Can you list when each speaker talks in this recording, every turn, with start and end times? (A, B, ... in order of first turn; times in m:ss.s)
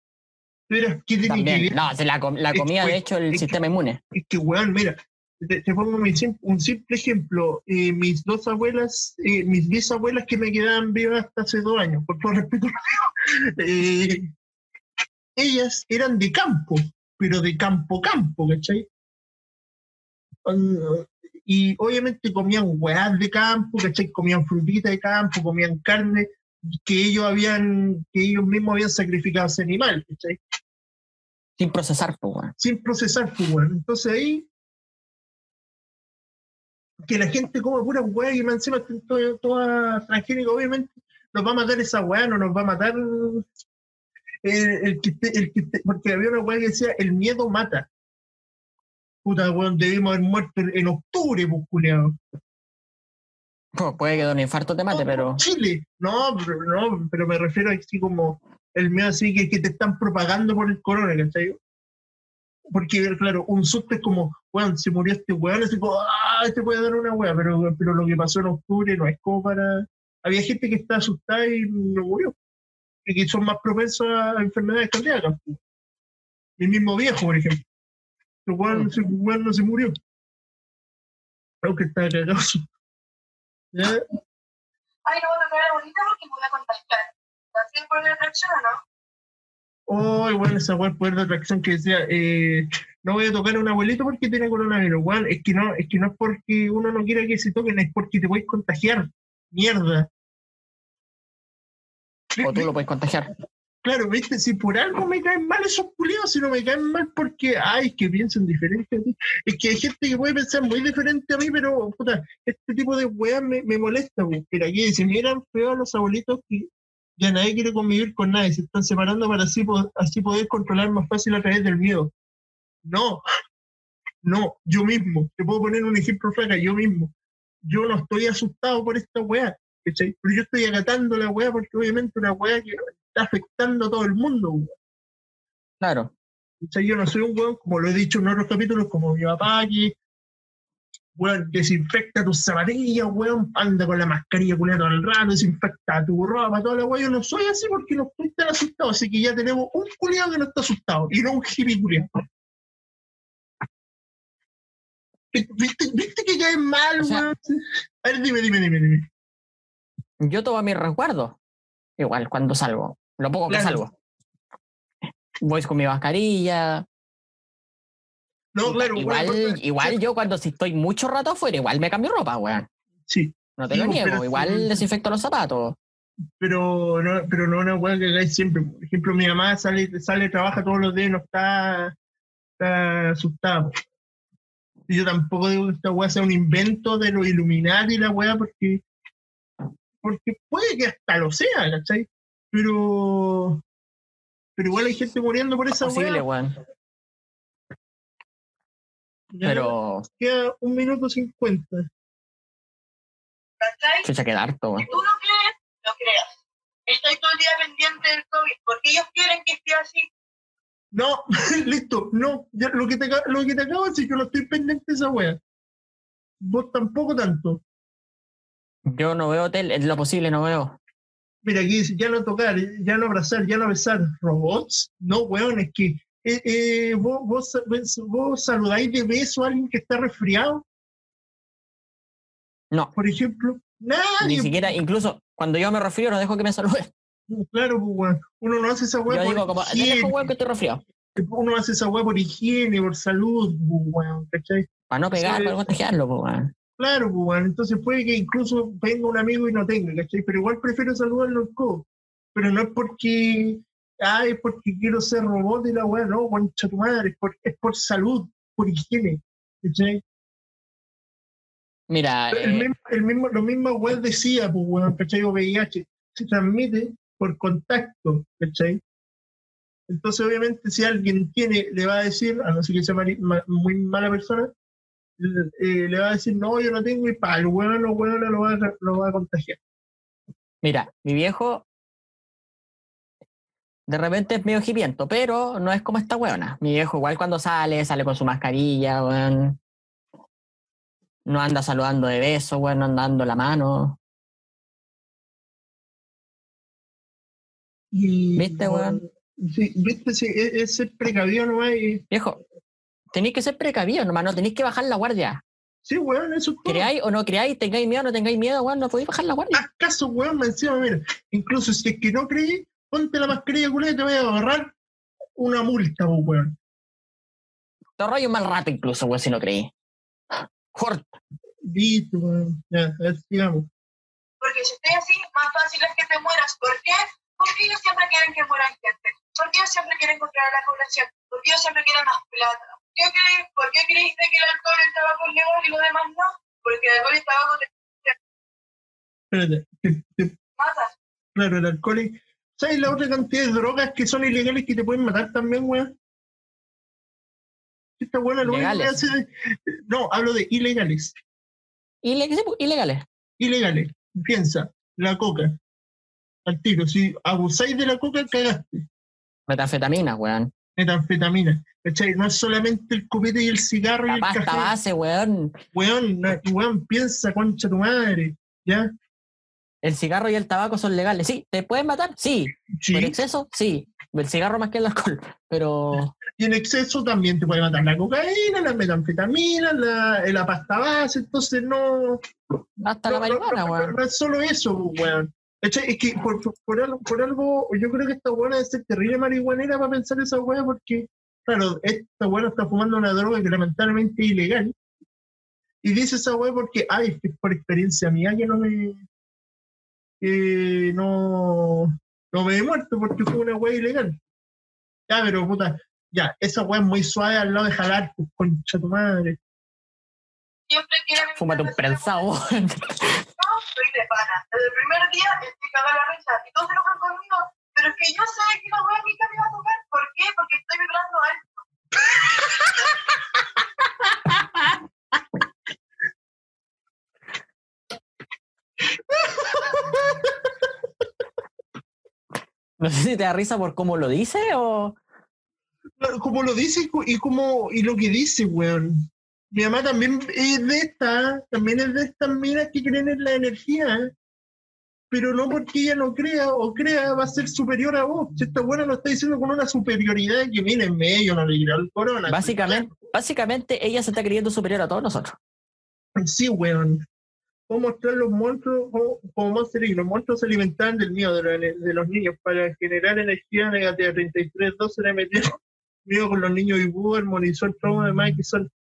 0:00.7-0:01.8 A
0:01.3-0:04.0 B
0:02.5-0:03.5 A
0:04.1-0:14.3 A
0:15.4-0:18.9 A
0:20.4-0:30.4 A
0:31.6-0:32.6 B
0:32.6-0:34.5 A
0:37.1-0:43.5 A
0:44.4-0:47.9 A
0:49.2-0:52.2 A
0:53.8-0:55.4 B
0:54.9-1:01.6 A
1:02.7-1:12.4 A
1:13.0-1:15.6 A
1:16.6-1:17.6 A
1:18.4-1:20.0 A
1:21.6-1:22.7 A
1:23.7-1:24.0 A
1:25.0-1:28.8 C
1:29.9-1:40.1 A
1:42.4-1:42.7 A
1:42.4-1:43.3 B
1:43.8-2:02.1 A
2:02.8-2:03.2 A
2:04.2-2:07.1 A
2:07.6-2:14.8 A
2:15.8-2:16.1 B
2:16.6-2:20.0 A
2:21.2-2:32.1 A
2:35.3-2:39.1 A
2:37.0-2:37.3 B
2:40.2-2:41.4 B
2:42.0-2:43.9 B
2:43.5-2:43.8 A
2:45.4-2:46.8 B
2:48.5-2:50.0 A
2:48.6-2:52.7 B
2:53.1-2:54.7 A
2:53.6-2:55.8 B
2:56.4-3:02.0 A
3:02.6-3:03.8 A
3:04.9-3:08.8 A
3:10.0-3:13.6 A
3:14.6-3:16.2 A
3:15.8-3:16.6 B
3:19.3-3:21.9 A
3:19.4-3:20.1 B
3:23.6-3:24.1 C
3:24.0-3:24.9 B
3:24.8-3:26.3 C
3:26.9-3:30.1 C
3:30.9-3:35.4 A
3:36.4-3:37.6 A
3:38.9-3:40.8 B
3:41.4-3:50.6 A
3:53.0-3:54.6 A
3:54.2-3:56.9 B
3:57.3-4:00.1 A
3:59.1-4:00.8 B
4:01.2-4:05.7 A
4:04.9-4:06.5 B
4:06.8-4:20.0 A
4:21.9-4:22.7 B
4:22.3-4:28.8 A
4:29.9-4:34.5 A
4:35.2-4:39.6 A
4:40.6-4:41.6 B
4:43.9-4:49.6 B
4:51.3-4:54.0 B
4:57.9-5:02.0 A
4:58.4-4:59.0 B
5:02.1-5:02.4 B
5:03.1-5:05.4 B
5:05.8-5:06.9 A
5:06.7-5:09.6 B
5:09.6-5:14.7 A
5:15.4-5:16.6 A
5:18.0-5:19.7 B
5:20.7-5:21.1 B
5:21.7-5:23.7 A
5:24.4-5:38.1 C
5:39.3-5:40.3 A
5:40.6-5:40.9 C
5:41.4-5:45.9 A
5:48.0-5:51.2 A
5:48.4-5:49.0 B
5:52.0-5:53.0 B
5:53.4-5:55.6 A
5:56.4-5:58.9 A
5:59.5-6:00.5 B
6:00.8-6:04.7 A
6:04.1-6:05.6 B
6:05.7-6:08.9 A
6:09.8-6:16.2 B
6:12.8-6:13.2 A
6:16.4-6:22.2 A
6:22.8-6:24.0 B
6:23.0-6:34.7 A
6:35.8-6:39.0 A
6:40.2-6:44.2 A
6:45.1-6:49.4 A
6:50.7-6:52.3 C
6:51.4-6:53.2 B
6:53.4-7:01.6 C
7:04.2-7:04.8 B
7:09.1-7:10.3 A
7:12.8-7:15.0 B
7:16.0-7:24.1 A
7:25.1-7:33.0 A
7:32.3-7:35.4 B
7:36.2-7:37.0 A
7:37.7-7:48.7 A